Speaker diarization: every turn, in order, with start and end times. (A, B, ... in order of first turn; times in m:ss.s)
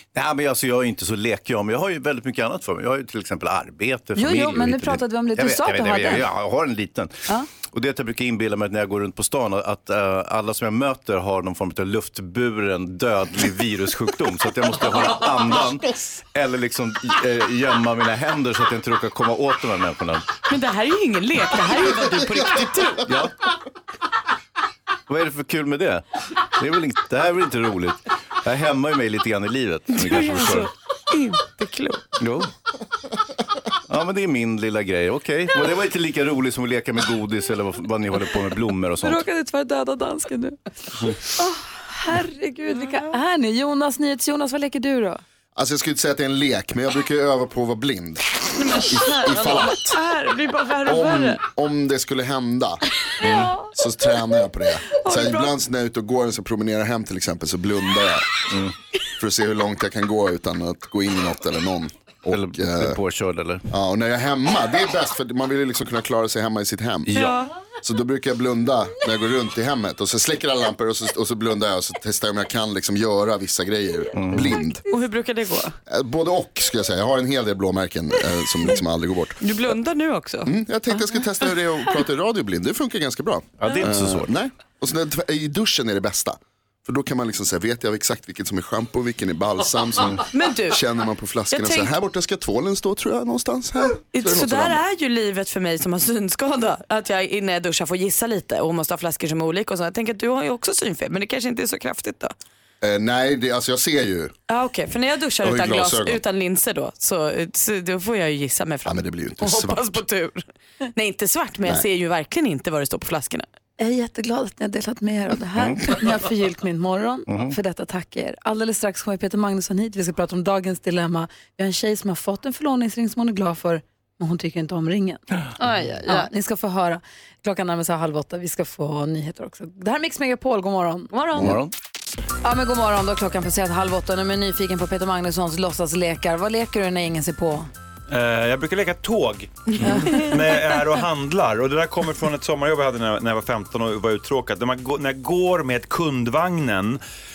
0:00.1-0:20.3 A
0:04.2-0:06.3 B
0:20.5-0:23.1 C
0:23.0-0:23.3 A
0:25.1-0:30.7 A
0:30.0-0:32.1 C
0:32.2-0:32.5 A
0:33.9-0:39.2 A
0:39.0-0:40.6 B
0:41.4-0:45.2 B
0:45.6-0:50.0 D
0:48.6-0:51.4 C
0:50.8-0:52.8 D
0:53.2-0:53.5 A
0:53.3-0:53.6 C
0:53.6-0:58.3 D
0:54.9-0:55.5 C
0:59.2-1:03.0 D
1:02.3-1:03.7 A
1:03.7-1:07.3 D
1:07.1-1:07.4 A
1:07.2-1:07.5 C
1:07.8-1:14.8 D
1:14.2-1:14.6 A
1:14.9-1:15.8 C
1:15.9-1:19.4 D
1:19.4-1:20.5 C
1:20.4-1:34.8 D
1:23.6-1:24.3 A
1:30.3-1:30.8 C
1:31.5-1:31.9 C
1:34.1-1:42.3 C
1:42.8-1:44.3 D
1:44.5-1:50.4 C
1:45.4-1:46.2 D
1:48.8-1:50.0 D
1:51.0-1:53.5 C
1:53.8-2:11.2 B
1:57.3-1:57.5 A
2:05.6-2:06.3 C
2:11.4-2:11.7 A
2:12.4-2:17.7 B
2:18.1-2:27.0 E
2:19.8-2:20.2 B